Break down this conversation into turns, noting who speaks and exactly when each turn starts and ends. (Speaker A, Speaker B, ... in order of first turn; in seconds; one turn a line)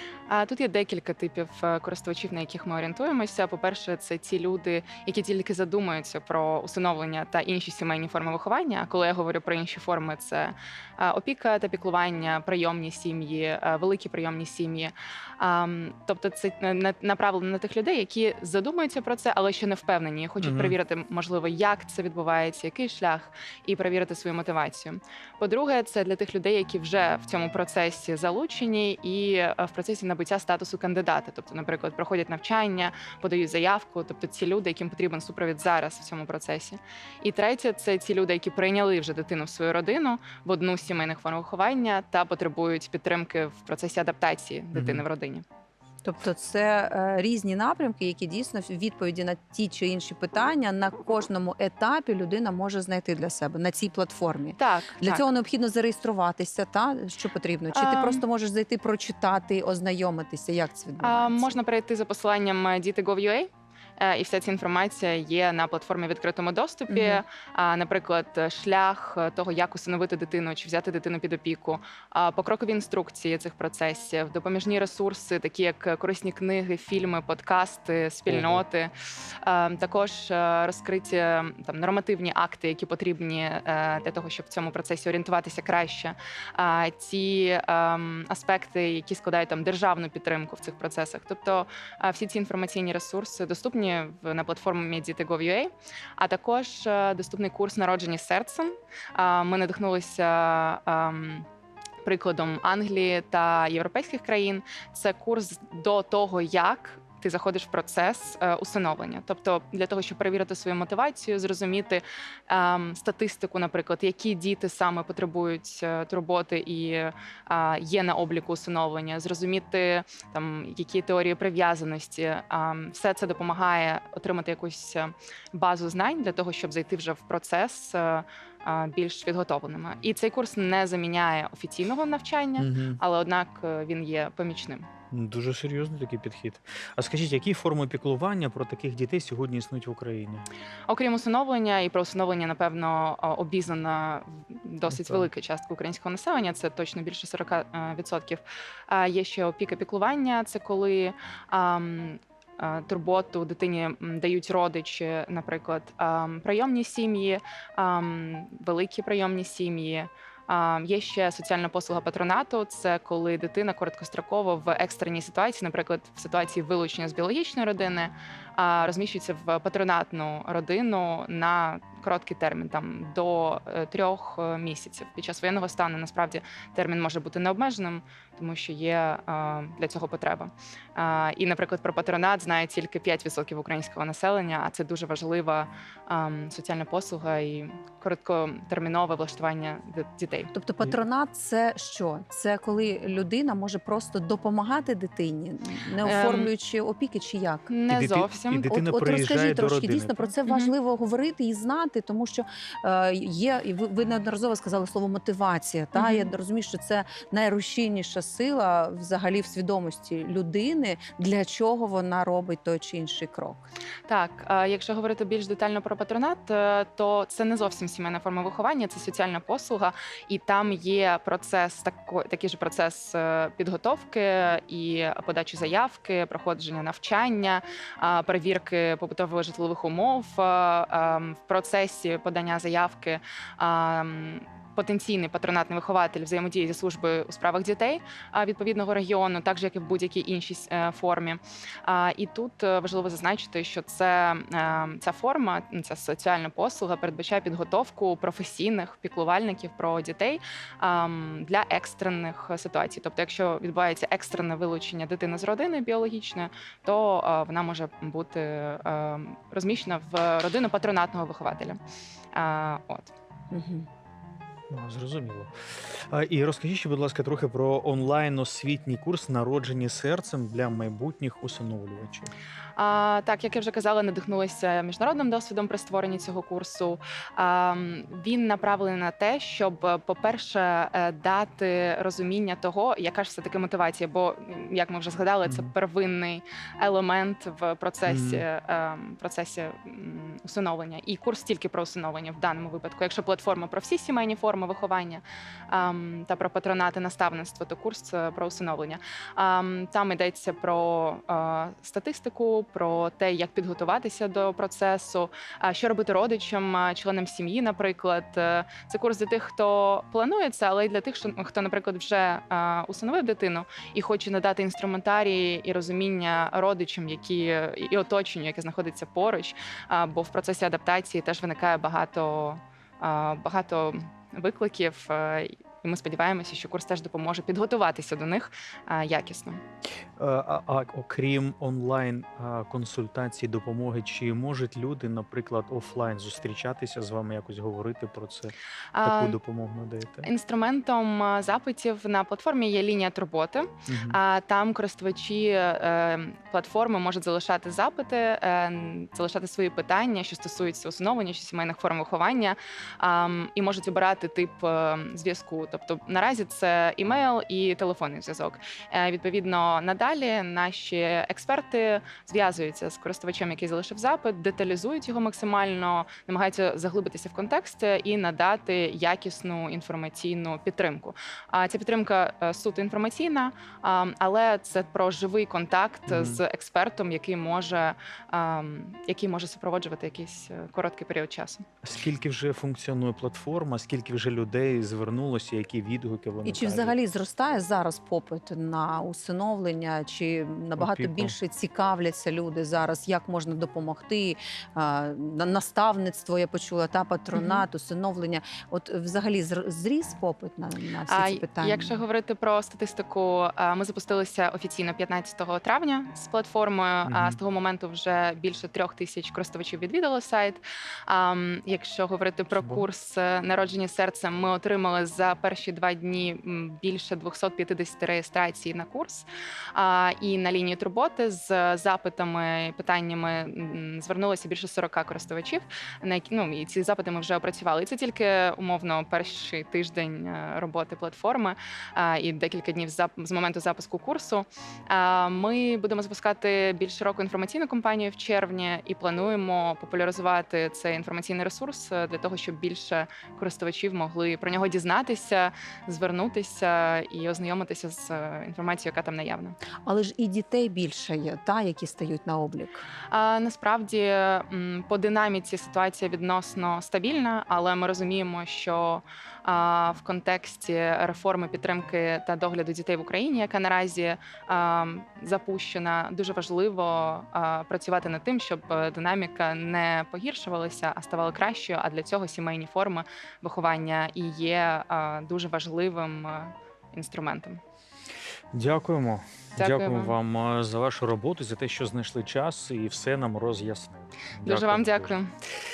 Speaker A: 0.3-45.4
Speaker B: 20.4-20.8
Speaker B: 44.7-45.0
Speaker C: 46.0-61.5
Speaker A: 54.6-55.2
Speaker A: 57.7-58.2
Speaker A: 61.0-101.5
Speaker C: 66.9-67.2
Speaker B: 78.3-78.6
Speaker A: 102.0-134.9
Speaker B: 132.6-133.0
Speaker B: 135.1-140.4
Speaker A: 140.9-190.5
Speaker B: 144.9-145.3
Speaker C: 190.5-197.7
Speaker A: 196.0-196.5
Speaker A: 197.7-198.7
Speaker B: 197.9-200.3
Speaker C: 198.7-213.7
Speaker A: 205.9-206.3
Speaker A: 214.1-261.8
Speaker A: 262.3-263.1
Speaker C: 263.5-263.9
Speaker B: 264.7-272.3
Speaker A: 272.8-329.6
Speaker B: 285.4-285.7
Speaker B: 288.1-288.4
Speaker B: 330.2-340.3
Speaker A: 338.9-339.4
Speaker A: 340.2-381.6
Speaker B: 343.9-344.2
Speaker B: 376.1-376.4
Speaker B: 381.8-387.0
Speaker C: 386.4-402.0
Speaker B: 390.8-391.3
Speaker A: 397.3-397.7
Speaker A: 401.1-449.6
Speaker B: 407.1-407.4
Speaker B: 412.5-412.9
Speaker C: 449.8-452.8
Speaker A: 453.1-477.6
Speaker B: 478.5-485.2
Speaker A: 479.6-480.1
Speaker A: 484.4-485.3